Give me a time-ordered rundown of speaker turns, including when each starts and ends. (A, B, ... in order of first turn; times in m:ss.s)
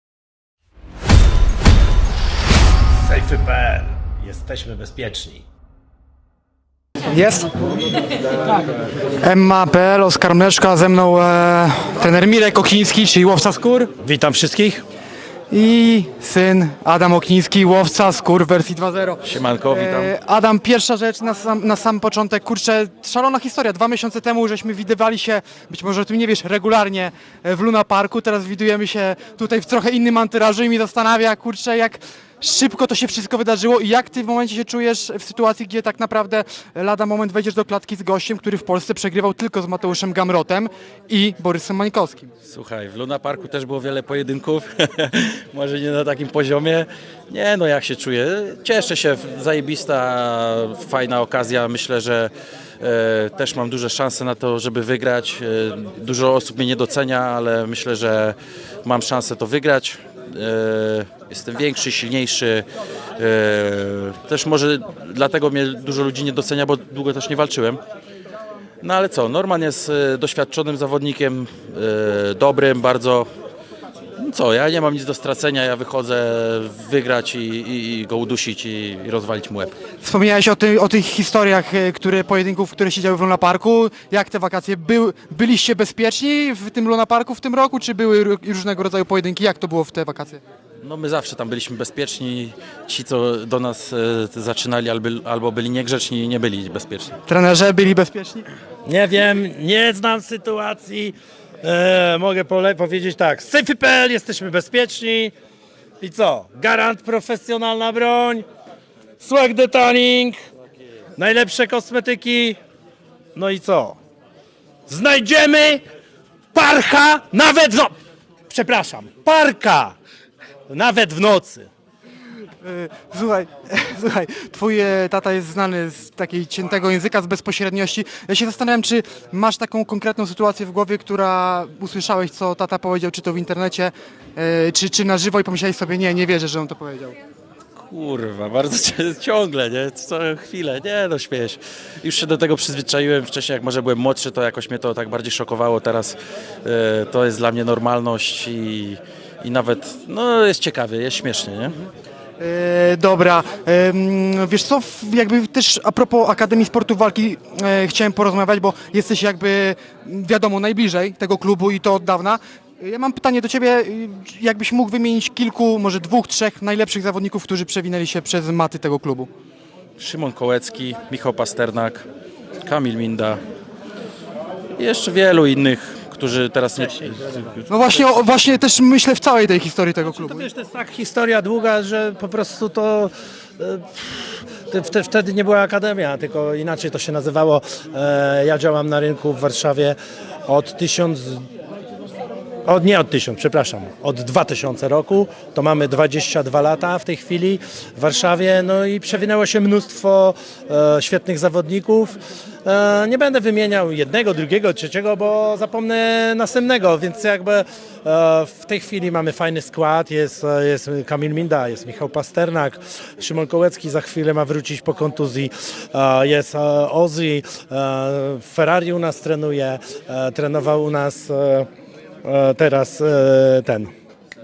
0:03.0-0:05.4 A
0:07.1-0:07.5 B
0:09.2-0:13.9 B
0:14.0-0:14.8 A
0:15.5-0:42.3 B
0:19.2-0:20.1 C
0:42.5-1:02.6 C
1:03.2-1:07.8 C
1:08.8-1:13.2 C
1:14.2-1:19.7 C
1:20.0-1:30.4 B
1:30.8-1:37.1 C
1:37.2-1:38.4 B
1:38.8-1:45.3 A
1:46.0-1:48.4 A
1:49.2-1:50.4 A
1:51.2-1:52.6 A
1:53.4-1:54.0 A
1:54.9-1:55.8 A
1:56.5-1:57.9 A
1:58.5-1:59.9 A
2:00.7-2:01.7 A
2:02.6-2:17.1 B
2:17.8-2:31.8 C
2:32.4-2:49.3 B
2:50.0-2:52.0 C
2:52.6-2:53.4 C
2:54.8-2:57.6 C
2:56.9-2:57.6 A
2:57.7-3:00.5 B
3:00.0-3:11.4 A
3:12.6-3:41.7 A
3:42.2-3:43.9 A